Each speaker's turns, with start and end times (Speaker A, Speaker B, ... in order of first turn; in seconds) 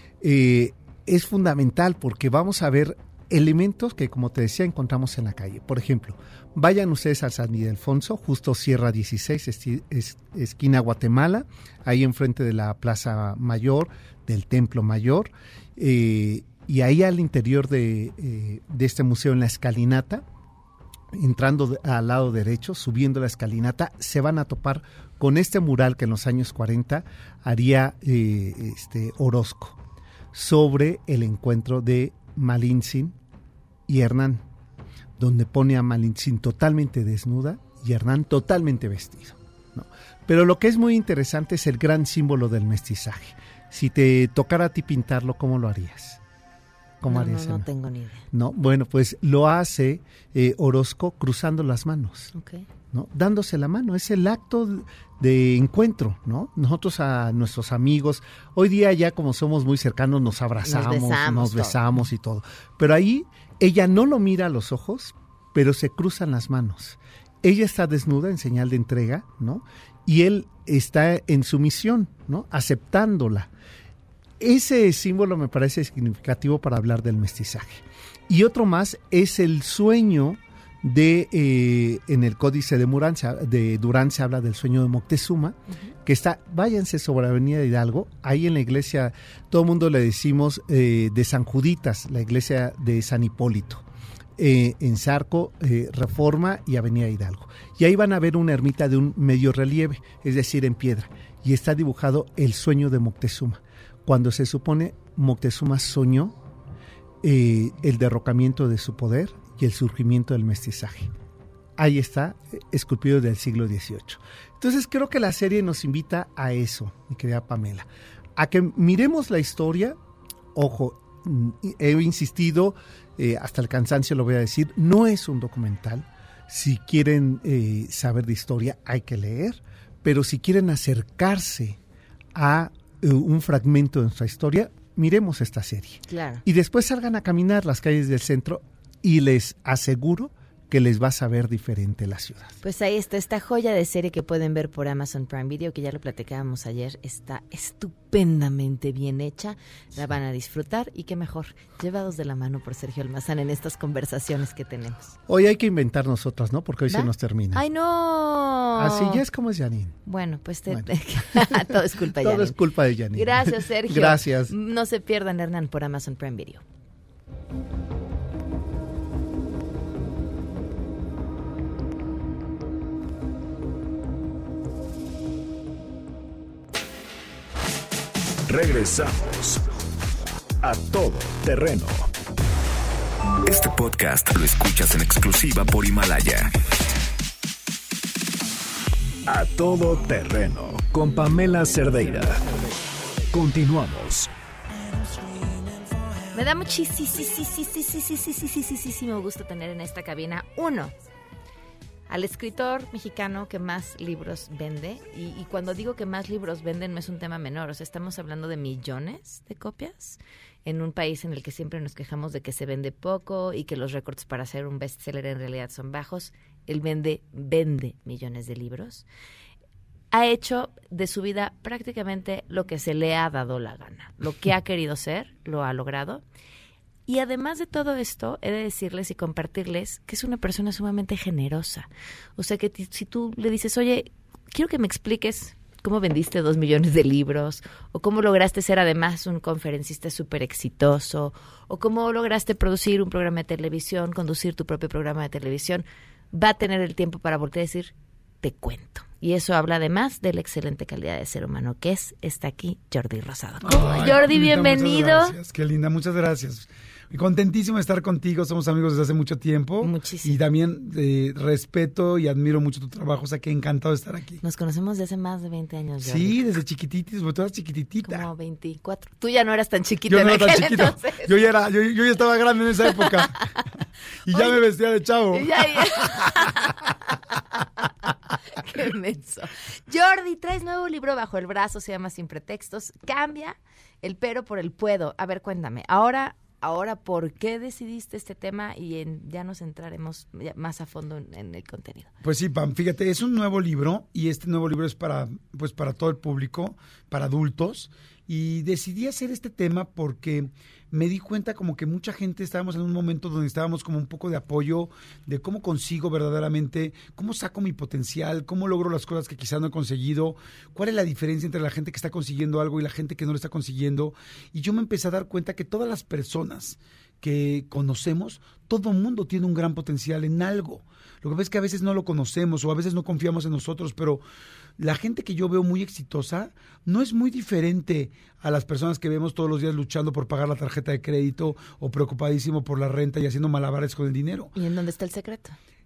Speaker A: 0.2-20.2, 21.1-29.8, 30.3-33.2, 33.9-34.4, 35.2-46.2, 47.0-47.7, 48.3-52.3, 52.9-73.5, 74.4-93.8, 94.4-106.4, 107.2-111.1, 111.8-120.0, 120.5-131.8, 132.3-142.6, 155.3-157.6, 158.7-160.0, 160.7-164.5
Speaker B: 47.1-48.2, 52.3-52.6, 60.6-61.8, 136.1-136.4, 142.6-155.1, 156.9-159.2, 160.1-162.6, 163.1-166.6, 196.3-200.9, 202.1-219.0, 220.1-226.2, 227.1-255.3, 259.8-260.4, 264.4-266.4, 268.0-271.3, 274.3-274.6, 275.3-276.9, 278.5-292.1, 334.5-335.6
Speaker C: 178.5-179.6, 180.6-182.1, 189.3-192.4, 193.3-194.3
Speaker D: 183.4-186.5
Speaker E: 253.6-264.4, 266.0-268.3, 270.1-273.4, 274.2-276.3, 292.2-324.2, 324.8-334.5